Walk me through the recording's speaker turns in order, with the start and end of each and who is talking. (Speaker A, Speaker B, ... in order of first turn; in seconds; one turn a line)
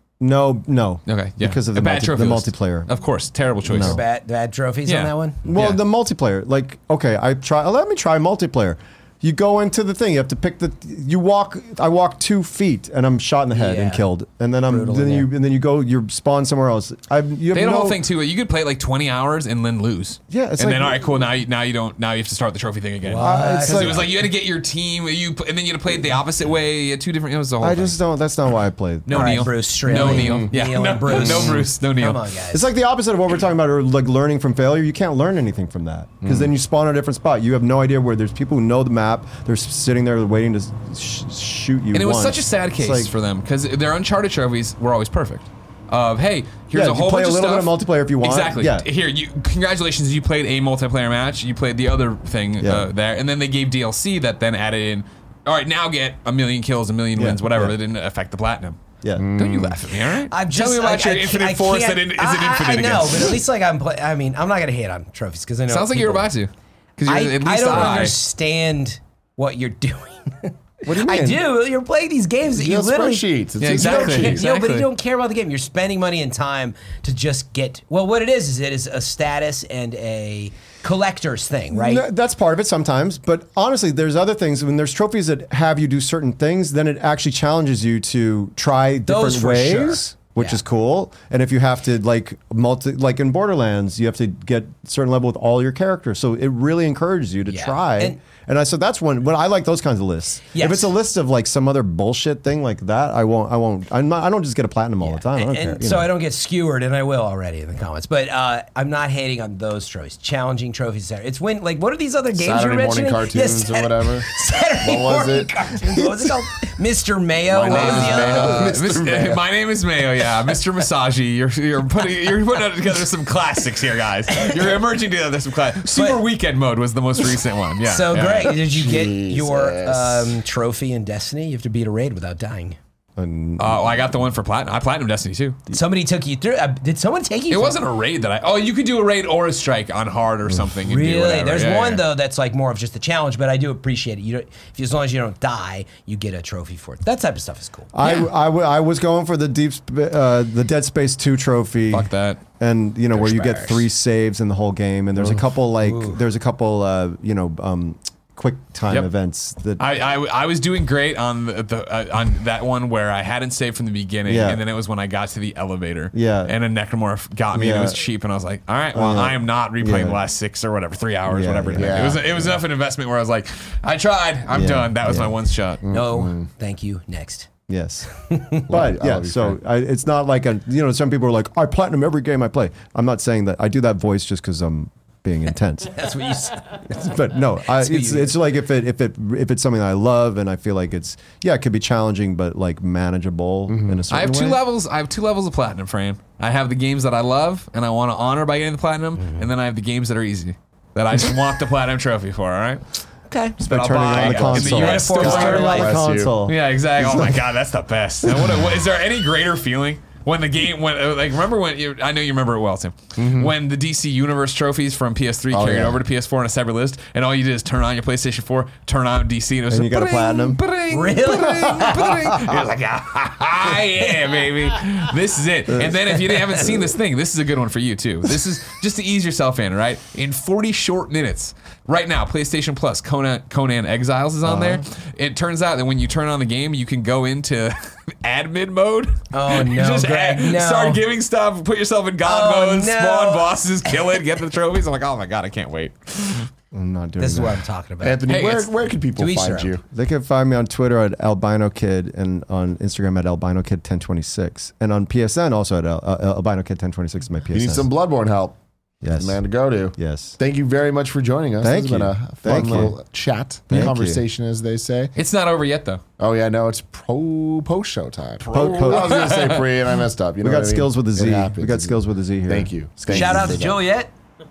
Speaker A: 0.2-3.0
Speaker B: 1.1-4.0
Speaker A: 3.7-4.0
Speaker C: 3.7-5.4
Speaker B: 4.8-5.8
Speaker A: 5.4-18.0
Speaker C: 13.5-14.0
Speaker C: 14.7-15.3
Speaker B: 17.5-28.0
Speaker A: 20.3-21.2
Speaker C: 23.1-24.1
Speaker A: 23.2-24.1
Speaker A: 27.6-30.3
Speaker B: 29.1-32.2
Speaker C: 29.1-32.6
Speaker D: 30.1-30.5
Speaker A: 31.1-31.7
Speaker A: 32.5-43.1
Speaker D: 36.2-36.5
Speaker B: 41.9-58.8
Speaker A: 46.7-48.9
Speaker A: 52.6-52.9
Speaker A: 57.1-57.8
Speaker D: 59.2-59.9
Speaker B: 59.3-63.4
Speaker C: 60.2-66.3
Speaker B: 65.7-68.2
Speaker C: 67.0-82.0
Speaker A: 70.8-71.4
Speaker D: 72.5-74.4
Speaker B: 73.6-74.9
Speaker A: 81.7-106.1
Speaker C: 89.1-90.6
Speaker C: 97.5-98.2
Speaker C: 100.5-100.9
Speaker C: 105.0-118.8
Speaker D: 112.3-114.3
Speaker D: 114.8-115.7
Speaker D: 117.5-119.4
Speaker B: 117.6-128.6
Speaker C: 125.9-126.2
Speaker C: 127.8-132.8
Speaker D: 128.7-130.4
Speaker A: 133.2-134.0
Speaker B: 133.6-135.6
Speaker C: 135.7-137.8
Speaker B: 137.5-142.0
Speaker C: 140.8-148.2
Speaker A: 147.9-159.8
Speaker B: 151.9-152.4
Speaker C: 153.2-153.8
Speaker C: 155.8-156.2
Speaker B: 159.8-175.8
Speaker A: 164.3-164.6
Speaker A: 166.1-166.5
Speaker A: 167.5-168.0
Speaker A: 168.9-170.2
Speaker A: 171.3-172.6
Speaker D: 171.8-172.3
Speaker A: 174.5-175.3
Speaker D: 175.8-176.5
Speaker C: 175.9-177.5
Speaker A: 177.7-186.1
Speaker C: 178.2-178.7
Speaker D: 178.7-179.6
Speaker C: 185.9-187.2
Speaker A: 186.9-194.6
Speaker C: 187.7-188.3
Speaker D: 193.7-194.0
Speaker B: 194.1-203.0
Speaker C: 203.3-205.9
Speaker A: 203.6-207.4
Speaker B: 203.9-205.9
Speaker D: 204.2-206.3
Speaker B: 206.4-246.5
Speaker A: 208.2-208.6
Speaker D: 213.2-213.5
Speaker D: 215.5-216.0
Speaker A: 219.7-220.6
Speaker C: 220.9-222.2
Speaker A: 221.3-222.6
Speaker A: 234.4-234.8
Speaker C: 239.3-241.0
Speaker C: 242.2-243.6
Speaker A: 246.7-247.6
Speaker C: 247.2-248.2
Speaker D: 248.0-249.8
Speaker B: 248.3-248.7
Speaker C: 249.2-249.7
Speaker A: 249.9-257.9
Speaker D: 257.5-258.6
Speaker A: 259.0-260.4
Speaker D: 259.1-265.1
Speaker A: 261.6-263.0
Speaker A: 263.7-264.2
Speaker B: 265.1-266.0
Speaker D: 266.2-273.9
Speaker B: 268.4-269.7
Speaker A: 268.5-269.4
Speaker A: 270.4-273.6
Speaker C: 273.1-274.1